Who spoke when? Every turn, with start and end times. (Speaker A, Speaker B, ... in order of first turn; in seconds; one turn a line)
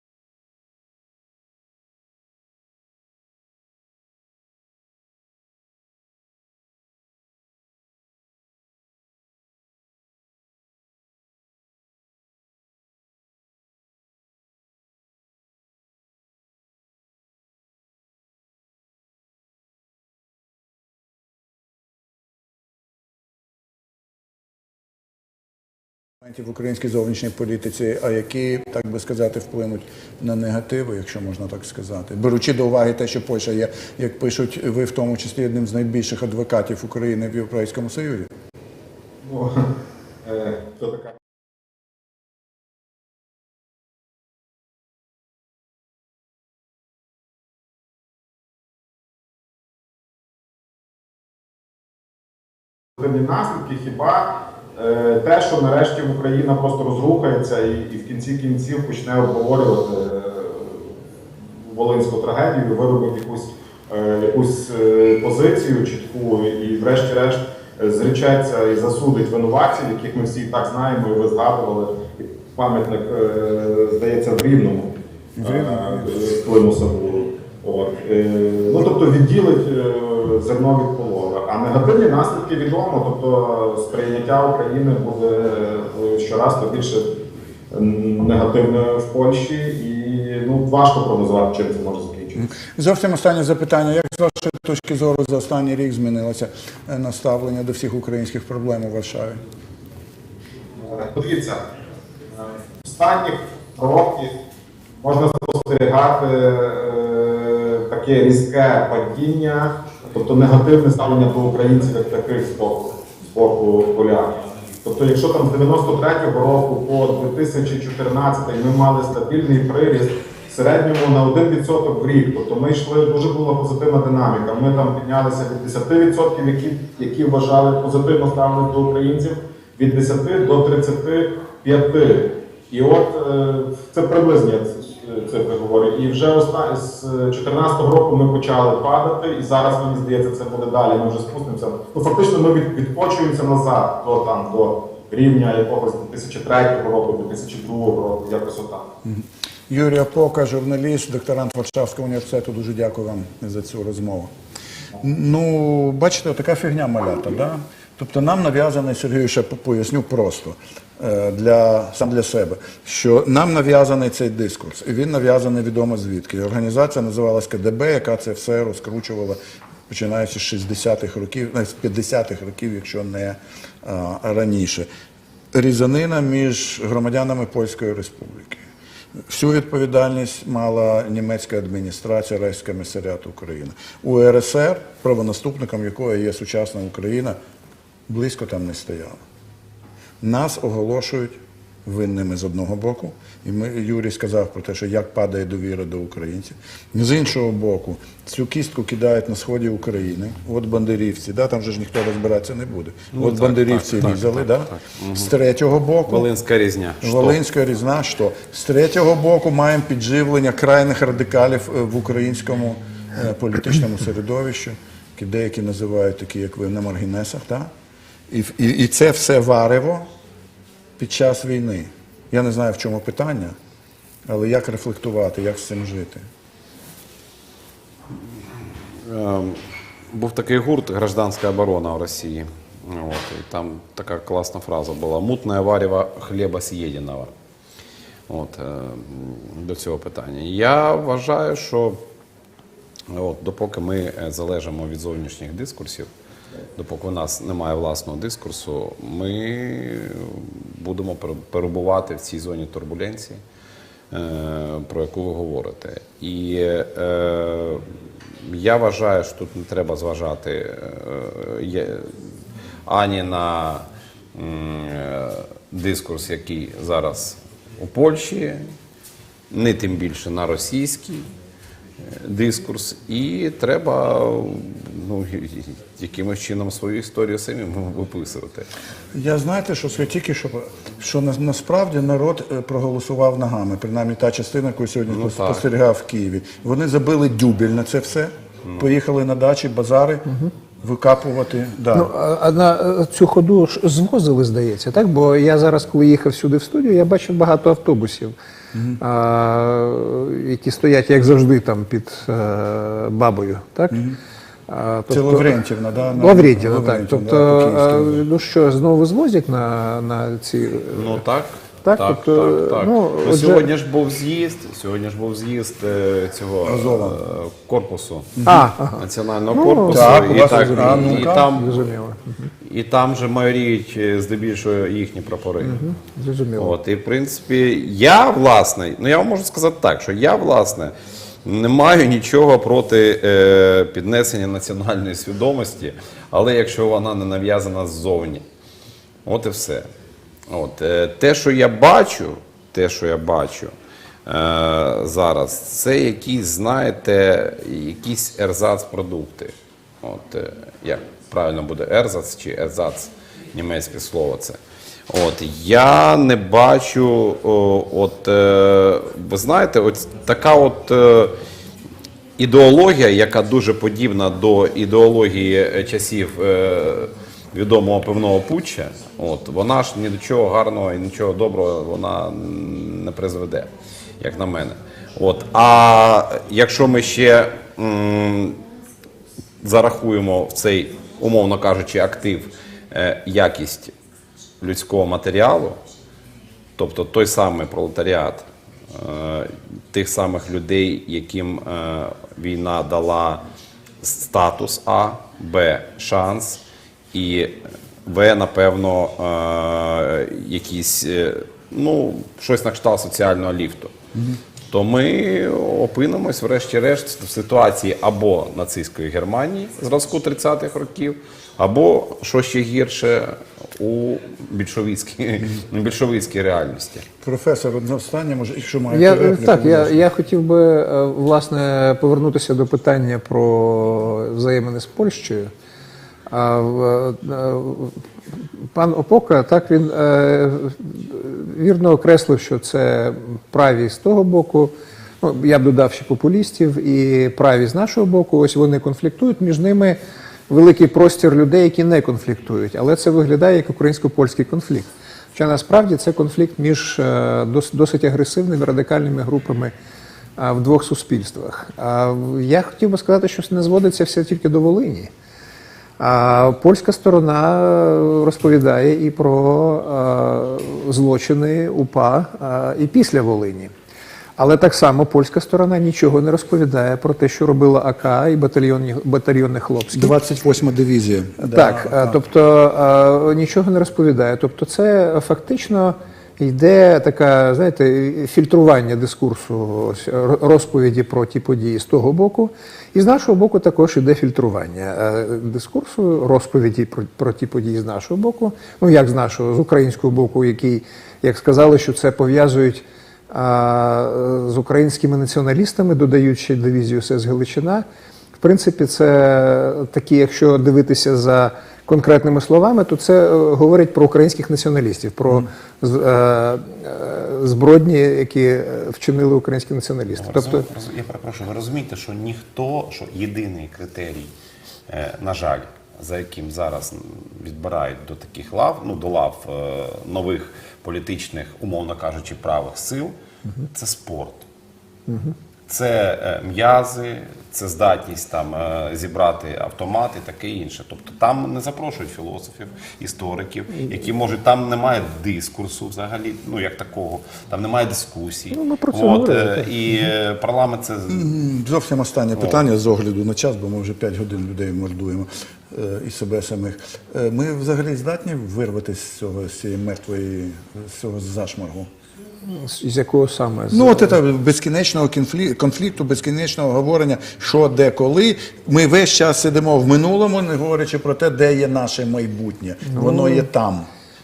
Speaker A: 26.2-38.3
Speaker B: 39.2-39.7
Speaker B: 40.2-41.1
Speaker B: 53.0-60.9
Speaker B: 61.6-87.1
Speaker A: 75.4-76.2
Speaker B: 87.7-92.5
Speaker A: 92.4-99.4
Speaker B: 100.8-101.6
Speaker B: 102.4-104.3
Speaker B: 105.0-148.8
Speaker A: 149.1-154.3
Speaker A: 155.0-169.4
Speaker A: 169.9-174.9
Speaker A: 175.5-178.6
Speaker A: 179.3-187.4
Speaker A: 188.1-189.2
Speaker A: 190.2-206.3
Speaker C: 203.1-205.3
Speaker C: 206.1-207.4
Speaker A: 207.0-217.7
Speaker A: 218.3-220.1
Speaker A: 221.0-223.6
Speaker A: 224.3-226.2
Speaker C: 229.0-237.3
Speaker C: 238.3-242.0
Speaker C: 243.1-246.1
Speaker C: 246.8-253.4
Speaker C: 254.1-257.9
Speaker C: 258.4-262.1
Speaker C: 262.9-268.7
Speaker C: 269.5-271.3
Speaker C: 272.0-278.7
Speaker A: 279.1-290.3
Speaker C: 285.1-285.6
Speaker A: 290.8-292.1
Speaker D: 291.9-298.3
Speaker A: 298.7-299.0
Speaker D: 299.0-304.0
Speaker A: 303.9-304.2
Speaker D: 304.7-305.6
Speaker A: 305.1-308.2
Speaker D: 306.2-311.2
Speaker C: 310.9-318.4
Speaker D: 311.9-313.7
Speaker A: 316.6-317.2
Speaker A: 318.4-318.7
Speaker D: 318.4-322.5
Speaker C: 319.0-321.9
Speaker A: 319.9-321.5
Speaker C: 322.6-325.8
Speaker D: 325.6-326.7
Speaker C: 326.6-330.9
Speaker C: 331.4-338.4
Speaker C: 339.3-339.9
Speaker C: 340.5-343.7
Speaker C: 344.3-354.6
Speaker C: 355.1-361.4
Speaker C: 362.4-378.6
Speaker C: 379.6-383.9
Speaker C: 384.6-385.8
Speaker C: 386.8-393.4
Speaker C: 394.0-396.6
Speaker C: 397.1-403.9
Speaker C: 404.7-417.1
Speaker A: 417.2-420.0
Speaker D: 418.9-425.5
Speaker D: 426.3-428.0
Speaker D: 428.7-440.0
Speaker D: 440.5-449.7
Speaker D: 450.4-455.1
Speaker D: 456.0-463.7
Speaker D: 464.4-470.1
Speaker A: 469.9-472.2
Speaker D: 471.5-497.9
Speaker D: 498.4-510.7
Speaker C: 510.2-514.3
Speaker C: 514.9-523.1
Speaker C: 523.7-524.4
Speaker D: 525.1-525.3
Speaker C: 525.7-541.3
Speaker D: 538.5-539.7
Speaker A: 541.1-551.9
Speaker D: 552.5-554.1
Speaker A: 553.7-563.9
Speaker D: 562.9-563.5